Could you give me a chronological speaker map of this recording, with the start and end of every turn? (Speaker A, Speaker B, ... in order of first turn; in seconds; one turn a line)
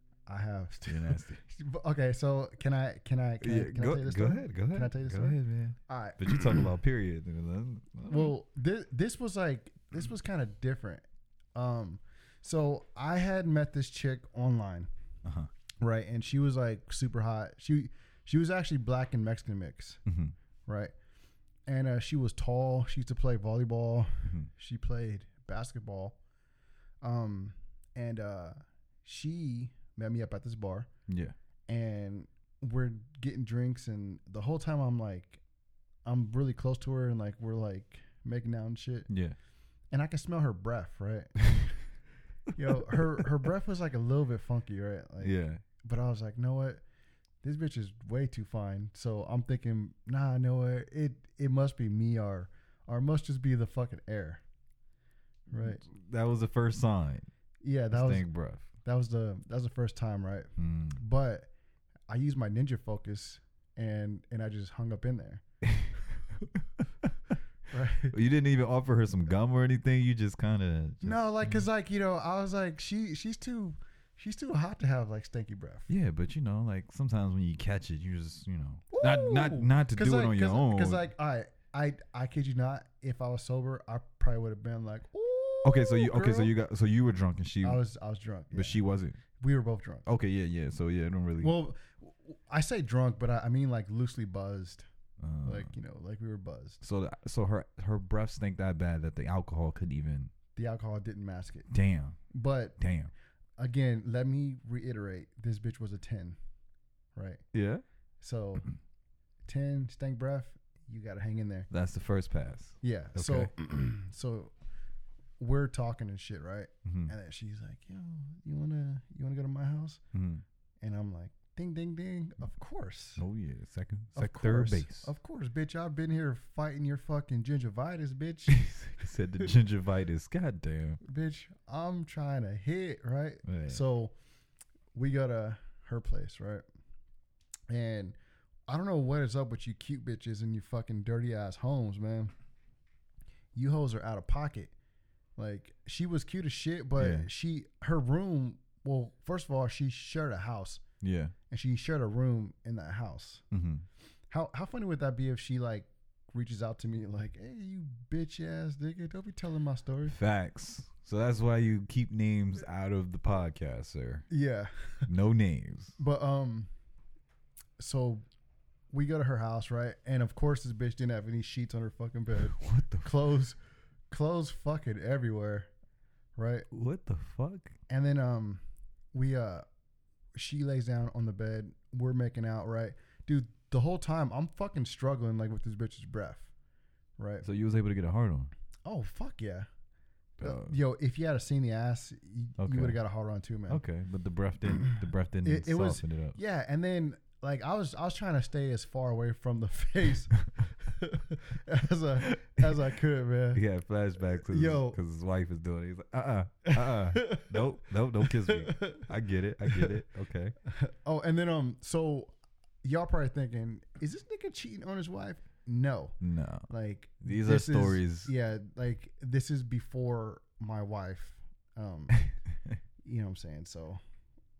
Speaker A: 0.3-6.7
Speaker B: 0.9-1.4
Speaker B: 3.4-8.3
Speaker A: 8.1-14.9
Speaker B: 15.2-15.5
Speaker A: 15.8-20.0
Speaker B: 20.1-20.3
Speaker A: 20.6-20.9
Speaker A: 21.7-26.2
Speaker A: 27.0-30.9
Speaker B: 31.1-31.3
Speaker A: 31.7-35.4
Speaker A: 36.0-39.1
Speaker B: 39.1-39.4
Speaker A: 39.9-41.8
Speaker A: 42.5-46.8
Speaker B: 42.8-43.2
Speaker B: 45.2-45.6
Speaker A: 47.4-54.4
Speaker A: 55.5-55.8
Speaker B: 55.6-57.3
Speaker A: 57.6-58.2
Speaker B: 57.9-58.7
Speaker A: 58.8-61.5
Speaker B: 60.6-61.0
Speaker A: 62.1-65.4
Speaker B: 65.6-67.3
Speaker A: 67.7-68.1
Speaker B: 68.1-71.6
Speaker A: 71.0-75.9
Speaker B: 75.9-81.1
Speaker A: 78.9-86.5
Speaker B: 85.6-87.8
Speaker A: 87.6-88.8
Speaker B: 88.5-89.2
Speaker A: 89.3-90.0
Speaker B: 90.0-91.5
Speaker A: 91.4-94.9
Speaker B: 95.2-95.7
Speaker A: 95.4-96.8
Speaker B: 96.8-100.3
Speaker A: 100.5-101.7
Speaker B: 101.7-102.2
Speaker A: 102.3-102.8
Speaker B: 102.8-103.1
Speaker A: 103.6-106.4
Speaker A: 107.1-107.4
Speaker B: 107.5-107.8
Speaker A: 108.2-108.7
Speaker A: 109.5-111.7
Speaker B: 111.7-113.5
Speaker A: 112.8-114.5
Speaker A: 115.4-120.0
Speaker B: 116.8-117.1
Speaker B: 120.1-120.4
Speaker A: 120.8-123.2
Speaker B: 123.2-125.1
Speaker A: 124.1-128.6
Speaker B: 128.5-131.0
Speaker A: 131.0-134.1
Speaker B: 133.4-133.8
Speaker A: 134.9-136.6
Speaker A: 137.7-138.2
Speaker A: 138.7-142.3
Speaker A: 143.5-144.7
Speaker A: 145.3-150.8
Speaker B: 147.0-147.3
Speaker B: 151.0-151.3
Speaker A: 151.5-153.4
Speaker B: 153.5-153.8
Speaker A: 154.3-160.1
Speaker B: 160.1-164.2
Speaker A: 164.3-165.0
Speaker B: 165.1-166.0
Speaker A: 166.0-166.7
Speaker A: 167.8-168.2
Speaker A: 168.9-173.6
Speaker B: 172.3-173.1
Speaker A: 174.1-175.7
Speaker A: 176.3-176.7
Speaker B: 176.7-177.7
Speaker A: 177.9-178.6
Speaker A: 179.1-179.6
Speaker A: 180.3-186.5
Speaker A: 187.2-187.4
Speaker B: 187.4-188.5
Speaker A: 188.8-189.7
Speaker A: 190.4-193.8
Speaker B: 190.4-190.8
Speaker B: 192.6-193.0
Speaker B: 193.7-196.4
Speaker A: 194.7-203.6
Speaker B: 202.3-202.7
Speaker B: 203.5-210.5
Speaker A: 204.2-205.0
Speaker A: 206.7-207.6
Speaker A: 208.2-209.1
Speaker A: 210.7-216.2
Speaker B: 216.2-216.7
Speaker A: 216.7-222.1
Speaker B: 217.2-218.3
Speaker B: 222.2-222.8
Speaker A: 223.0-224.0